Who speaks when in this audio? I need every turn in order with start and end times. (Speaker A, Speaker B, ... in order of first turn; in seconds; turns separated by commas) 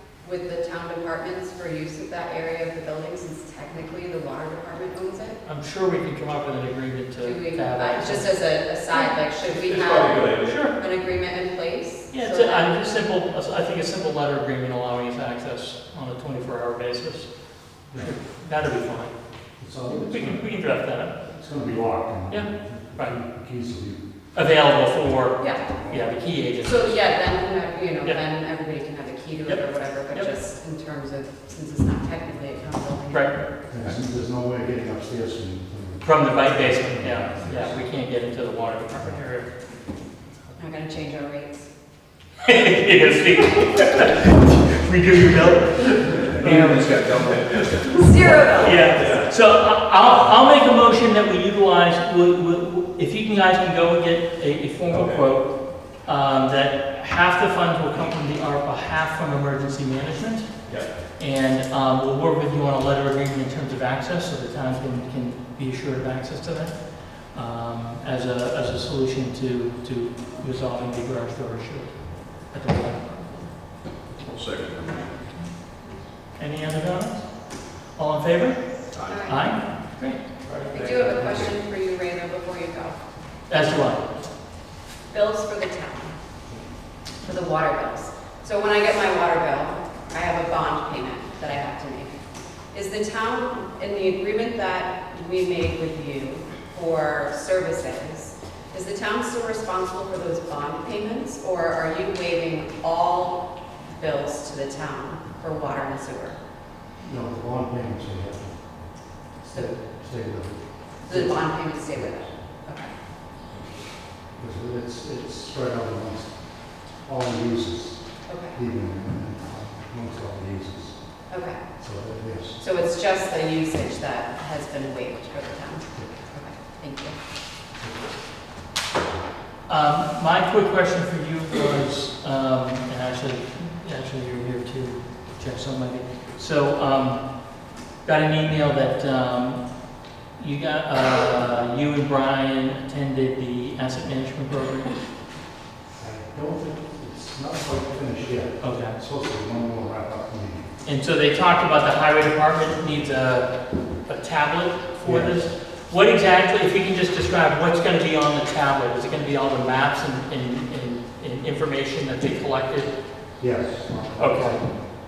Speaker A: 0.2-5.4, Speaker B: 5.4-9.2, Speaker A: 7.2-12.7, Speaker C: 9.5-10.6, Speaker B: 10.4-10.8, Speaker B: 12.1-19.2, Speaker D: 17.9-18.2, Speaker D: 19.6-20.5, Speaker B: 19.9-21.2, Speaker D: 21.2-24.0, Speaker B: 22.3-23.2, Speaker B: 24.3-27.1, Speaker A: 25.4-25.8, Speaker A: 26.6-33.4, Speaker B: 29.5-30.3, Speaker D: 33.7-37.8, Speaker B: 36.0-39.7, Speaker A: 40.6-41.7, Speaker B: 42.4-47.0, Speaker C: 46.2-48.0, Speaker E: 46.4-48.3, Speaker A: 47.9-49.2, Speaker B: 48.6-60.5, Speaker C: 48.7-50.3, Speaker C: 54.9-55.3, Speaker B: 61.2-73.5, Speaker E: 74.2-75.1, Speaker B: 76.4-80.2, Speaker E: 78.9-79.2, Speaker A: 79.1-79.6, Speaker C: 80.4-81.4, Speaker A: 80.7-83.0, Speaker B: 83.5-84.2, Speaker A: 85.1-86.1, Speaker A: 87.2-92.1, Speaker A: 92.7-106.4, Speaker D: 107.0-112.2, Speaker A: 111.0-112.9, Speaker D: 114.4-122.6, Speaker A: 118.3-118.6, Speaker A: 121.3-121.6, Speaker A: 122.6-127.2, Speaker D: 127.8-128.1, Speaker B: 129.7-145.2, Speaker D: 146.0-150.7, Speaker B: 148.6-149.0, Speaker B: 150.8-163.0, Speaker D: 155.0-155.4, Speaker D: 163.4-164.7, Speaker B: 164.2-164.7